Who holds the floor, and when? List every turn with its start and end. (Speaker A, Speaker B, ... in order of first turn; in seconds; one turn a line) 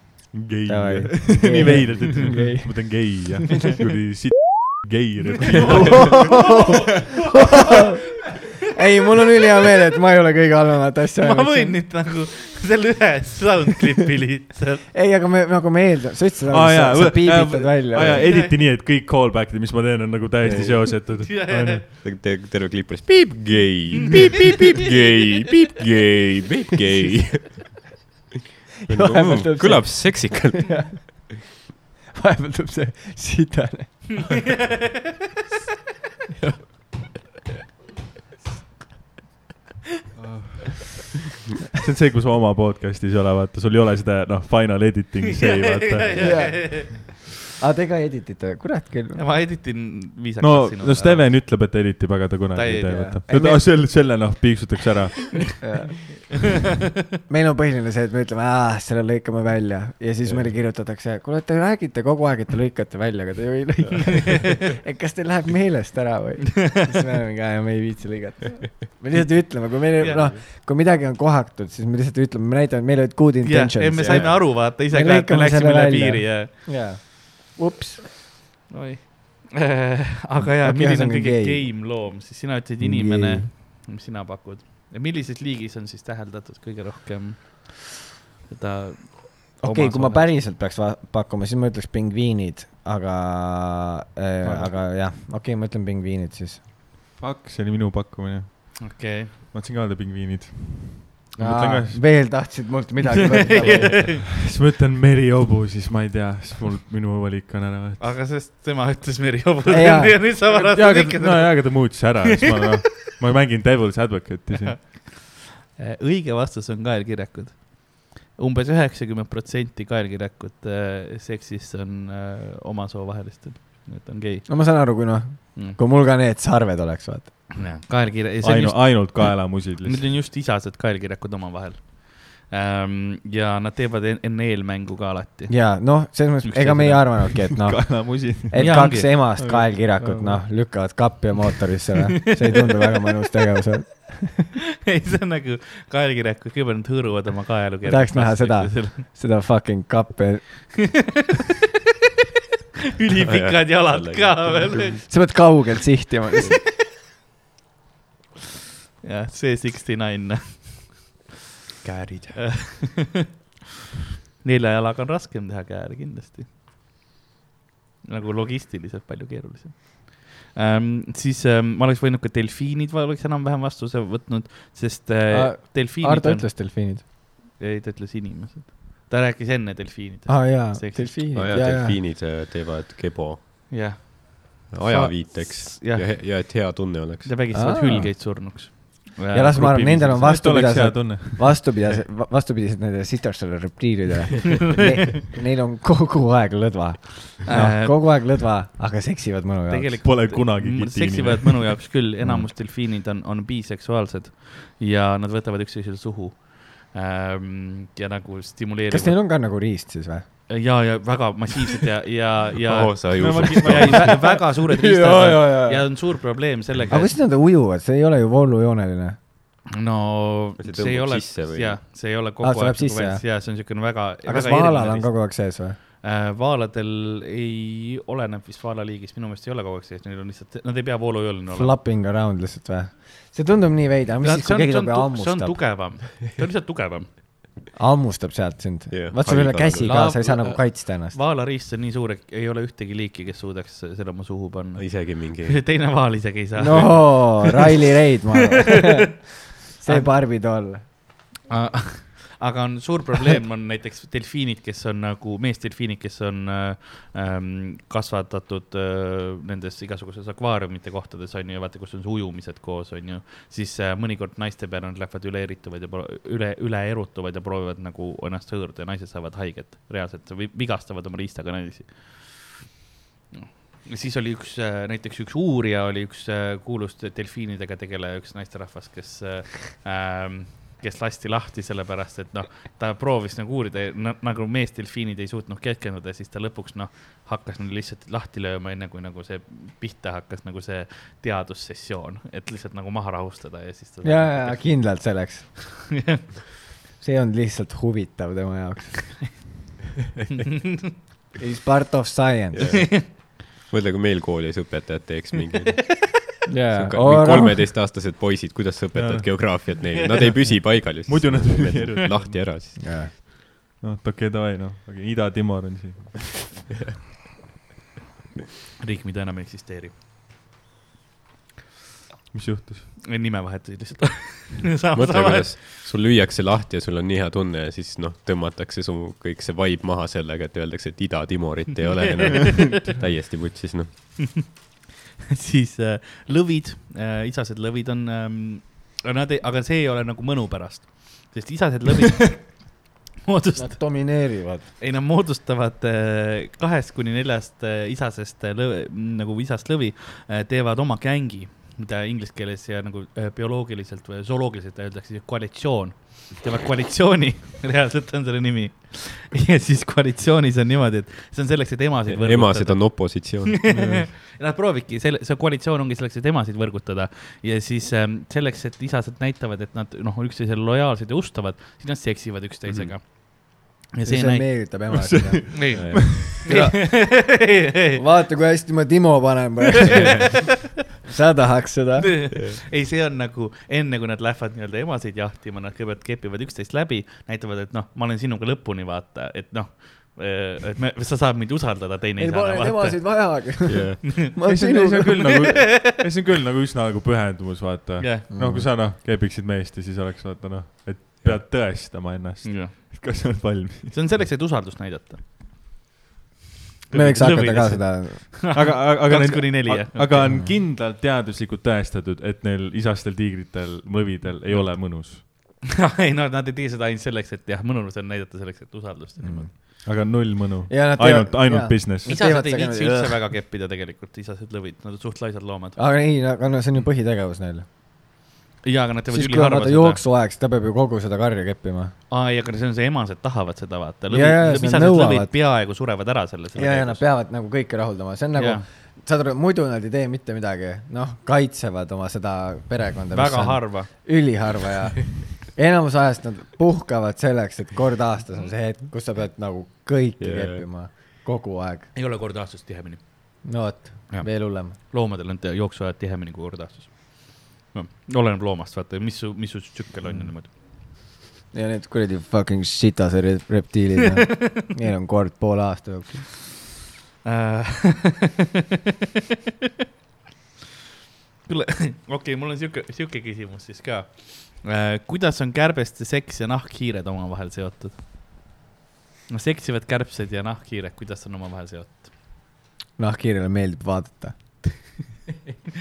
Speaker A: 0.3-6.5
Speaker B: 0.7-3.4
Speaker C: 5.6-7.9
Speaker B: 5.7-11.8
Speaker C: 11.2-14.9
Speaker B: 14.9-18.3
Speaker A: 16.5-21.9
Speaker C: 18.1-18.5
Speaker D: 20.4-21.2
Speaker C: 21.2-21.8
Speaker D: 22.0-27.8
Speaker D: 28.9-31.2
Speaker B: 28.9-30.9
Speaker B: 32.1-34.6
Speaker A: 40.2-40.9
Speaker A: 41.7-46.7
Speaker C: 45.4-47.2
Speaker B: 46.2-49.2
Speaker C: 49.1-51.4
Speaker A: 50.4-55.6
Speaker C: 52.5-53.1
Speaker B: 52.9-53.8
Speaker B: 55.6-56.5
Speaker B: 57.3-78.0
Speaker D: 60.2-60.5
Speaker C: 69.1-70.3
Speaker C: 73.4-76.5
Speaker D: 74.0-74.4
Speaker C: 78.7-88.0
Speaker B: 80.4-81.7
Speaker B: 82.8-83.5
Speaker C: 88.5-90.4
Speaker B: 89.6-96.6
Speaker A: 97.2-102.0
Speaker C: 98.8-99.3
Speaker B: 101.4-104.2
Speaker C: 103.3-104.2
Speaker A: 104.4-108.1
Speaker C: 108.0-112.2
Speaker B: 109.7-110.2
Speaker A: 110.4-114.8
Speaker C: 114.6-125.0
Speaker B: 124.5-127.5
Speaker C: 127.6-137.4
Speaker A: 128.4-130.1
Speaker B: 135.5-144.5
Speaker A: 137.6-140.4
Speaker C: 138.6-139.3
Speaker C: 144.8-149.1
Speaker B: 147.8-151.0
Speaker C: 153.0-155.0
Speaker D: 153.2-155.0
Speaker B: 155.1-156.6
Speaker C: 159.0-161.3
Speaker D: 161.9-162.3
Speaker C: 162.3-163.3
Speaker C: 164.4-166.5
Speaker C: 168.1-176.5
Speaker B: 175.3-177.0
Speaker C: 177.6-181.2
Speaker B: 180.3-182.0
Speaker D: 181.3-183.4
Speaker C: 183.7-186.4
Speaker D: 184.7-187.4
Speaker C: 187.2-190.3
Speaker B: 187.5-188.5
Speaker B: 189.3-200.2
Speaker A: 190.2-191.6
Speaker C: 197.5-198.1
Speaker C: 199.7-209.2
Speaker A: 200.0-201.9
Speaker B: 202.2-202.5
Speaker B: 208.9-210.3
Speaker C: 210.5-217.1
Speaker D: 212.6-214.2
Speaker A: 213.2-214.2
Speaker B: 214.1-215.9
Speaker B: 216.9-219.2
Speaker C: 219.7-225.3
Speaker D: 220.6-221.8
Speaker B: 222.4-223.4
Speaker B: 224.2-225.8
Speaker C: 226.0-231.8
Speaker B: 231.5-235.6
Speaker C: 234.2-237.1
Speaker B: 237.7-241.2
Speaker D: 238.9-240.2
Speaker C: 239.7-247.8
Speaker D: 244.8-245.6
Speaker B: 246.6-250.8
Speaker C: 249.8-250.1
Speaker C: 251.5-272.6
Speaker C: 273.3-295.1
Speaker B: 294.0-295.6
Speaker B: 297.0-299.4
Speaker C: 300.4-300.9
Speaker B: 301.4-302.8
Speaker D: 302.6-306.0
Speaker C: 302.6-303.1
Speaker B: 306.5-307.6
Speaker D: 306.8-312.8
Speaker A: 308.9-309.3
Speaker A: 311.1-312.4
Speaker B: 312.8-313.1
Speaker A: 313.8-316.5
Speaker C: 318.8-319.9
Speaker A: 322.3-322.9
Speaker C: 323.0-325.6
Speaker D: 324.9-333.9
Speaker C: 332.0-332.9
Speaker C: 335.3-342.7
Speaker C: 343.2-344.2
Speaker B: 343.6-344.7
Speaker C: 344.8-374.7
Speaker D: 362.1-363.7
Speaker A: 363.7-364.1
Speaker D: 372.7-372.9
Speaker B: 374.0-377.4
Speaker A: 374.9-375.9
Speaker C: 375.5-378.0
Speaker D: 375.7-376.0
Speaker B: 378.0-382.2
Speaker C: 379.8-380.4
Speaker C: 382.0-393.6
Speaker B: 392.2-395.4
Speaker D: 393.7-394.1
Speaker A: 394.5-404.2
Speaker C: 398.0-398.3
Speaker B: 398.3-398.7
Speaker C: 402.4-402.7
Speaker C: 403.9-405.2
Speaker C: 406.9-410.3
Speaker B: 406.9-408.3
Speaker A: 408.5-415.2
Speaker B: 410.1-410.6
Speaker C: 414.5-419.5
Speaker B: 419.2-419.5
Speaker A: 419.8-422.2
Speaker B: 420.7-423.2
Speaker C: 422.1-425.8
Speaker B: 425.8-427.7
Speaker C: 428.6-430.0
Speaker B: 429.1-431.9
Speaker C: 432.1-437.0
Speaker B: 434.1-435.3
Speaker B: 436.6-451.9
Speaker C: 438.4-438.6
Speaker C: 443.1-443.9
Speaker D: 450.2-450.7
Speaker C: 451.9-453.0
Speaker B: 453.4-454.8
Speaker C: 454.1-460.5
Speaker B: 461.5-466.3
Speaker C: 467.2-468.3
Speaker C: 471.5-478.0
Speaker C: 479.3-482.1
Speaker B: 483.0-484.4